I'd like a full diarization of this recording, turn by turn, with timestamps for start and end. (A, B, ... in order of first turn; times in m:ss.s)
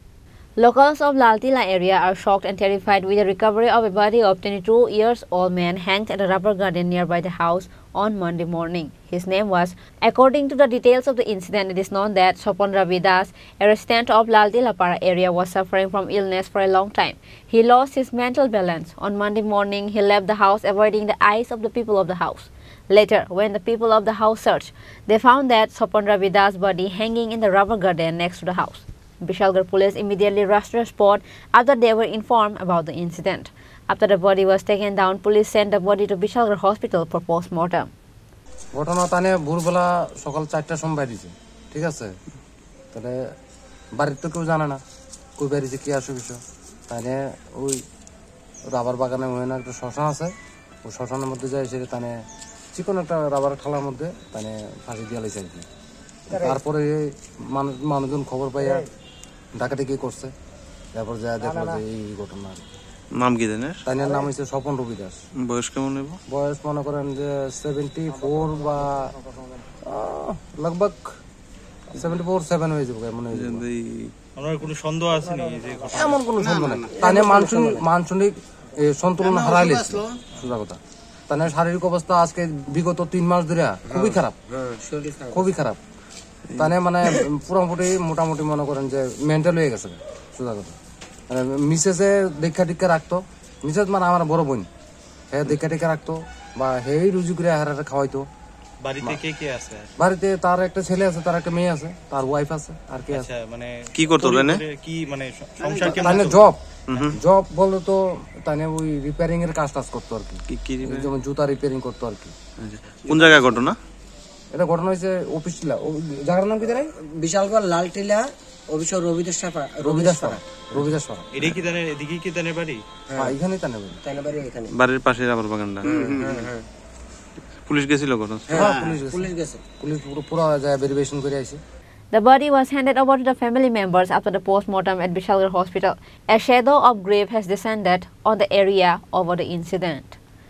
0:00.6-0:37.9 A
0:38.8-0:42.1 B
0:42.9-0:43.2 B
0:44.0-0:44.8 B
0:45.4-0:47.8 B
0:48.7-0:52.2 B
0:52.7-0:55.7 B
0:56.3-0:58.9 B
0:59.6-1:00.3 B
1:00.9-1:02.6 B
1:03.2-1:03.8 C
1:03.8-1:05.2 B
1:05.4-1:06.2 C
1:06.3-1:09.1 B
1:09.8-1:11.1 B
1:11.9-1:13.6 B
1:13.3-1:14.1 C
1:14.4-1:16.2 D
1:15.9-1:24.4 B
1:16.9-1:17.9 E
1:19.9-1:20.2 E
1:23.9-1:25.5 E
1:25.3-1:25.8 B
1:26.6-1:30.8 B
1:31.3-1:34.7 B
1:35.3-1:38.3 B
1:38.8-1:39.9 D
1:40.0-1:43.3 B
1:43.1-1:46.4 D
1:44.0-1:44.6 C
1:45.6-1:45.9 E
1:45.9-1:46.6 B
1:46.9-1:47.2 C
1:47.1-1:52.3 B
1:50.5-1:51.1 C
1:52.6-1:53.8 C
1:54.5-1:56.9 B
1:56.9-2:00.4 E
1:59.8-2:01.3 B
2:01.4-2:02.8 D
2:03.1-2:04.0 B
2:04.0-2:04.7 E
2:04.7-2:06.4 C
2:05.8-2:06.6 E
2:07.7-2:08.7 C
2:08.5-2:09.6 E
2:08.5-2:11.6 B
2:12.1-2:20.2 A